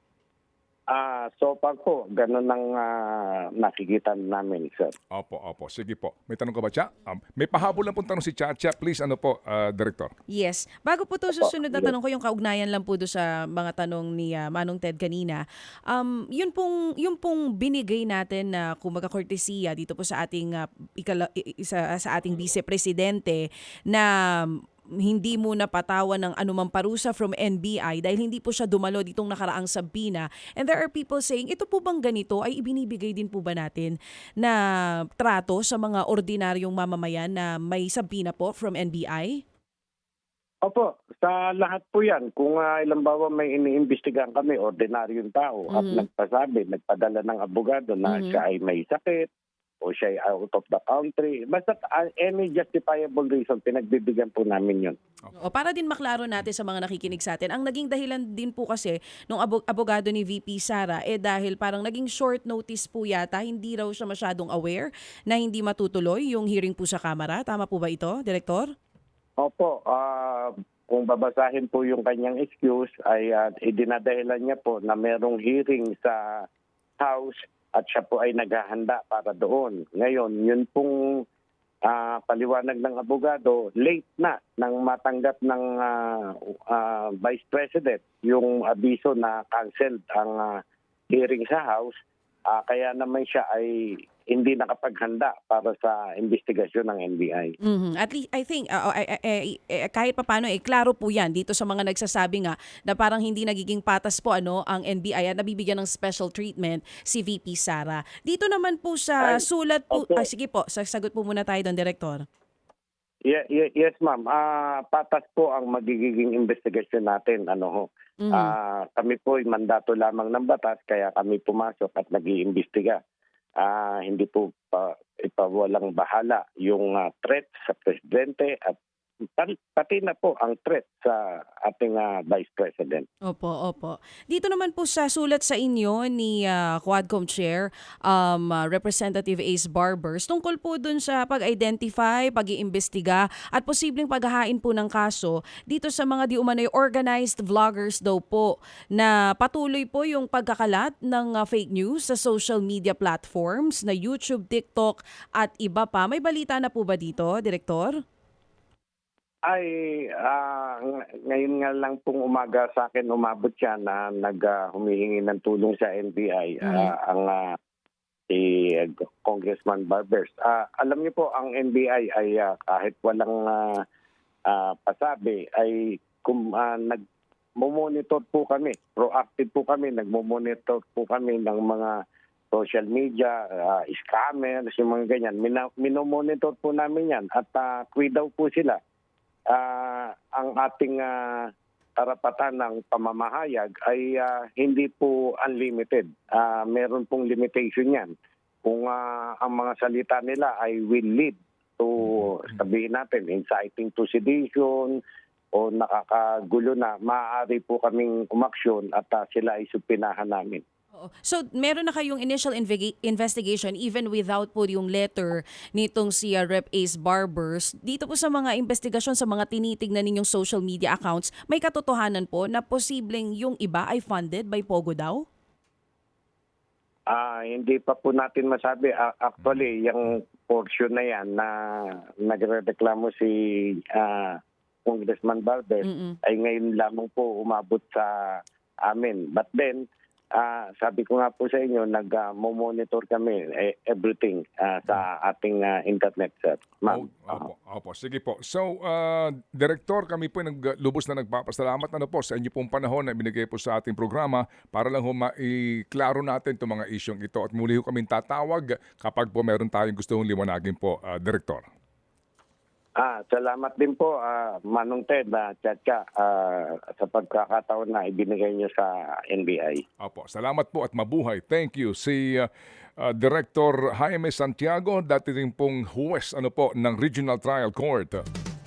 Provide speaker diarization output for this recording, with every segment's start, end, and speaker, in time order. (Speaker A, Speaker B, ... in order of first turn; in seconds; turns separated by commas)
Speaker A: 0.9-4.9, Speaker B: 5.1-10.1, Speaker C: 10.3-34.6, Speaker A: 11.4-11.9, Speaker C: 35.2-39.4, Speaker A: 40.6-49.3, Speaker C: 45.7-46.0, Speaker C: 48.0-48.4, Speaker A: 49.8-55.0, Speaker C: 55.4-68.7, Speaker A: 69.4-76.5, Speaker A: 77.0-81.0, Speaker A: 81.9-90.6, Speaker A: 91.1-91.9, Speaker A: 92.5-97.6, Speaker C: 97.6-112.2, Speaker A: 109.9-110.2, Speaker A: 113.3-123.0, Speaker C: 118.2-118.5, Speaker A: 123.6-128.8, Speaker A: 129.4-133.1, Speaker C: 133.2-158.0, Speaker A: 159.5-167.5, Speaker C: 166.6-166.9, Speaker A: 168.3-173.8, Speaker A: 174.5-177.0, Speaker A: 177.6-181.9, Speaker A: 182.5-188.8, Speaker A: 189.5-198.1, Speaker A: 198.7-205.0, Speaker A: 205.5-210.6, Speaker C: 211.0-225.2, Speaker A: 227.1-239.8, Speaker C: 235.8-236.2, Speaker A: 240.4-247.5, Speaker B: 246.9-261.6, Speaker A: 263.0-269.8, Speaker B: 270.0-278.2